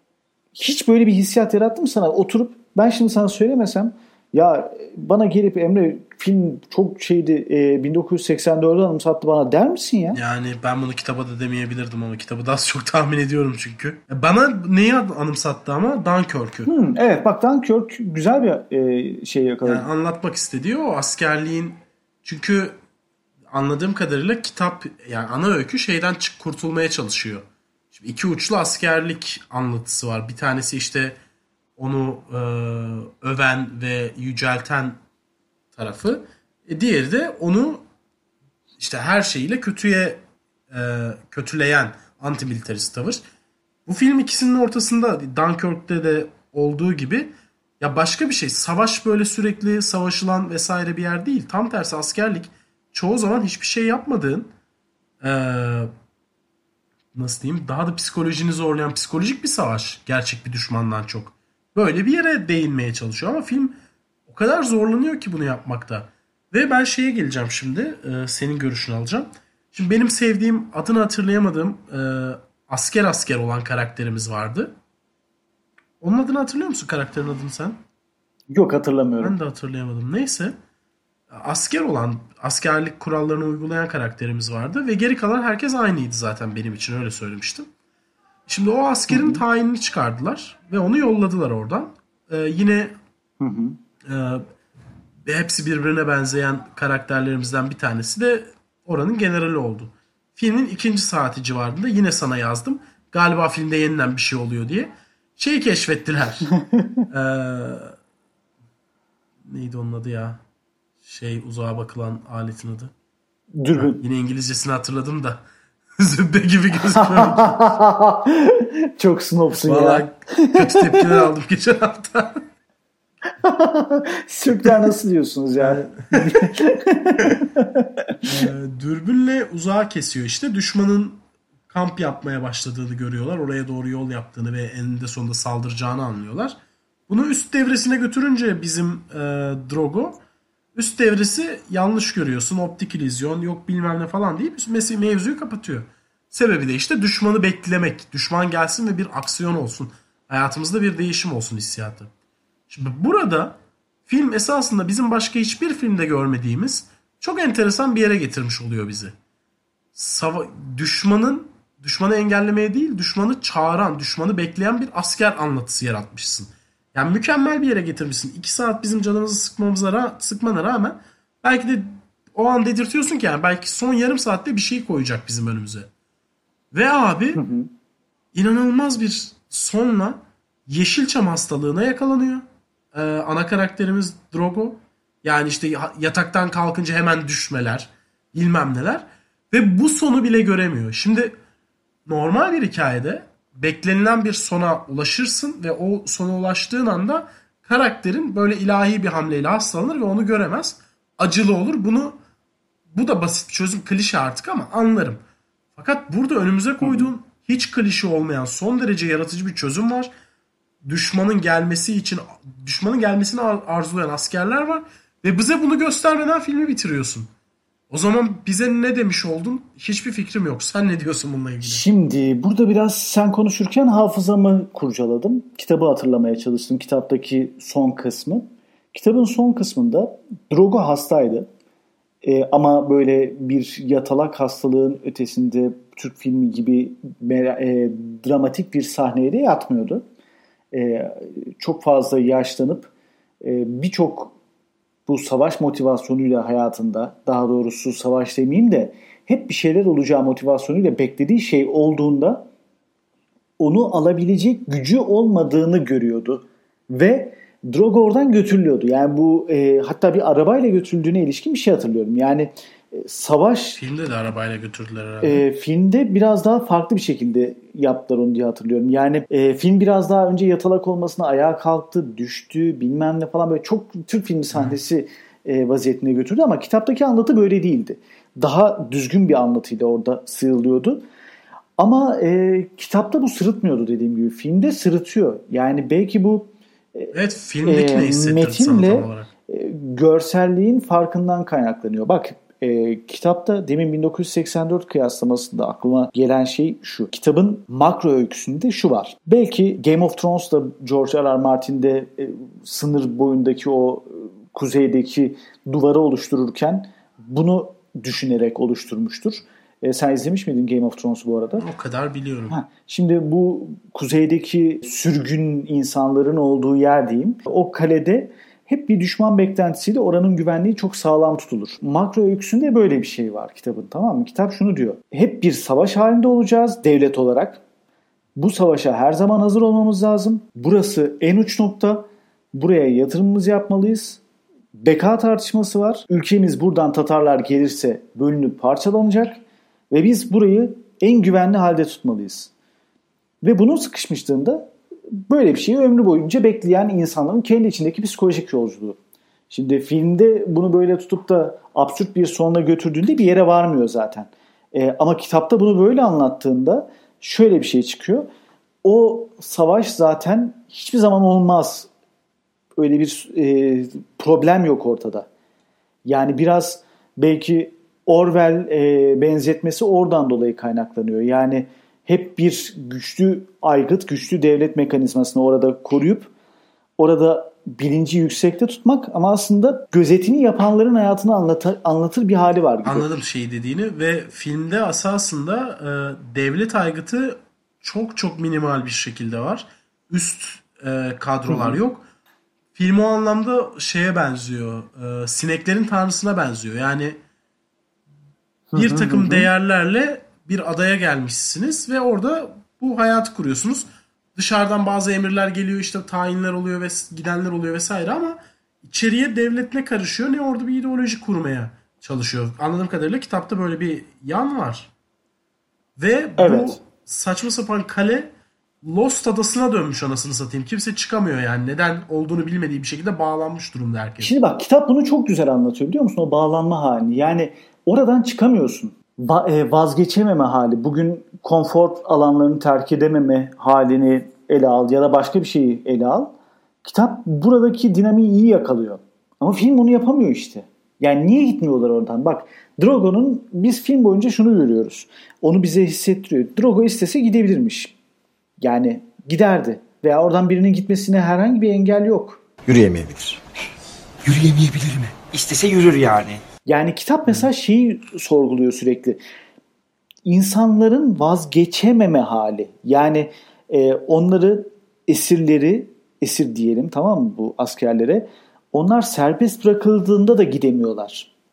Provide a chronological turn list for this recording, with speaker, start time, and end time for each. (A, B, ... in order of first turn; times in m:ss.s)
0:00.6-0:10.2 A
0:10.1-0:16.7 B
0:16.7-0:19.9 A
0:19.6-0:22.8 B
0:23.5-0:31.2 B
0:31.8-0:35.0 B
0:35.7-0:37.8 B
0:38.8-0:43.2 B
0:43.9-0:54.5 B
0:55.2-0:55.9 B
0:57.1-1:14.7 B
1:16.0-1:17.8 B
1:18.5-1:19.4 A
1:19.2-1:20.6 B
1:21.3-1:27.7 B
1:28.5-1:33.0 B
1:29.1-1:29.4 A
1:33.4-1:33.8 A
1:34.0-1:34.5 B
1:35.2-1:46.5 B
1:46.6-1:47.0 A
1:47.1-1:48.0 B
1:49.5-1:50.4 B
1:51.0-1:52.9 B
1:53.6-1:54.0 A
1:53.8-1:55.4 B
1:56.0-1:57.7 B
1:57.0-2:01.2 A
1:59.7-2:02.4 B
2:03.4-2:08.2 A
2:05.6-2:06.5 B
2:08.2-2:16.6 B
2:17.1-2:20.2 B
2:20.8-2:32.1 B
2:32.7-2:39.2 B
2:40.0-2:55.9 B
2:56.7-2:57.4 B
2:57.4-2:57.7 A
2:58.3-3:11.4 B
3:12.1-3:22.2 B
3:22.9-3:25.2 B
3:25.8-3:30.1 B
3:26.8-3:27.1 A
3:30.8-3:37.3 B
3:37.9-3:41.8 B
3:41.6-3:51.5 A
3:52.2-4:00.0 A
4:00.7-4:04.4 A
4:05.1-4:12.5 A
4:13.6-4:23.8 A
4:23.8-4:25.4 B
4:25.2-4:41.0 A
4:41.8-4:47.1 A
4:47.1-4:49.3 B
4:47.6-5:11.6 A
5:11.6-5:12.6 B
5:12.5-5:27.6 A
5:28.4-5:34.2 A
5:34.8-5:42.5 A
5:43.4-5:49.0 A
5:49.5-5:58.3 A
5:58.8-6:01.9 A
6:02.8-6:05.3 A
6:06.0-6:16.3 A
6:17.0-6:23.1 A
6:22.8-6:32.0 B
6:31.5-6:31.8 A
6:32.7-6:37.2 B
6:38.7-6:39.5 A
6:38.7-6:54.9 B
6:56.0-6:58.3 B
6:56.4-6:56.8 A
6:58.8-7:04.3 B
7:04.2-7:16.3 A
7:16.8-7:27.9 A
7:28.6-7:32.4 A
7:32.7-7:33.4 C
7:34.2-7:36.4 C
7:36.7-7:39.2 A
7:40.2-7:51.3 A